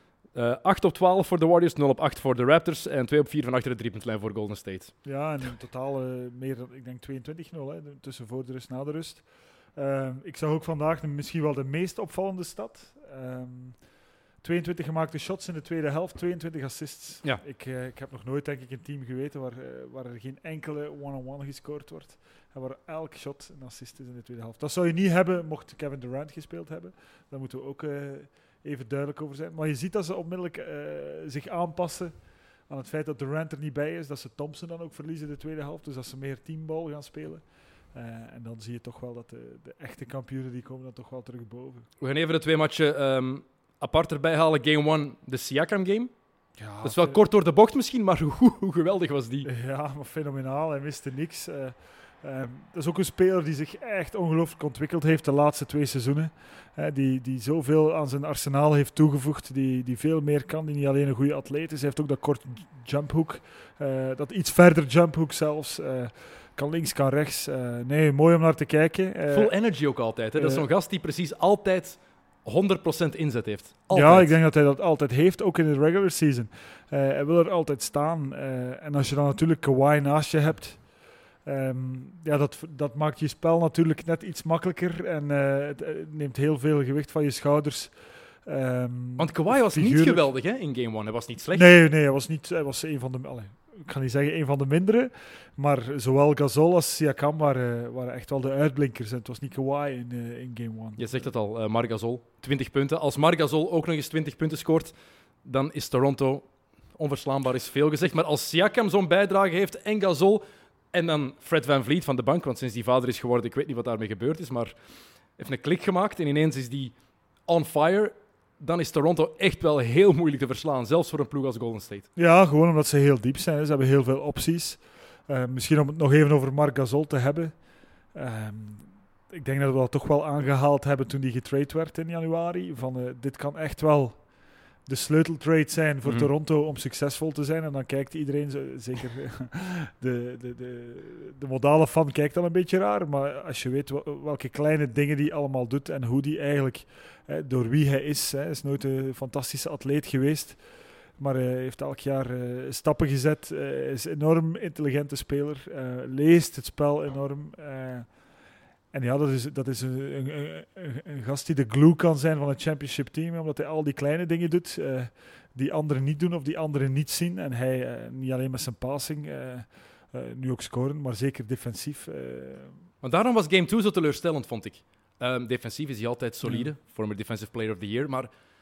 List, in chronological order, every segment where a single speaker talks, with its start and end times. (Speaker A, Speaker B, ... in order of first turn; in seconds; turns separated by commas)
Speaker A: 0.3-4.9, Speaker B: 5.0-41.9, Speaker A: 42.0-46.1, Speaker B: 46.6-47.2, Speaker A: 46.8-49.5, Speaker B: 49.5-69.5, Speaker A: 69.3-74.4, Speaker B: 70.4-70.7, Speaker B: 73.9-90.3, Speaker A: 89.2-91.7, Speaker B: 91.5-101.3, Speaker A: 101.0-114.7, Speaker A: 115.3-122.1, Speaker B: 122.2-172.8, Speaker A: 136.1-136.3, Speaker A: 173.0-178.3, Speaker B: 176.4-176.7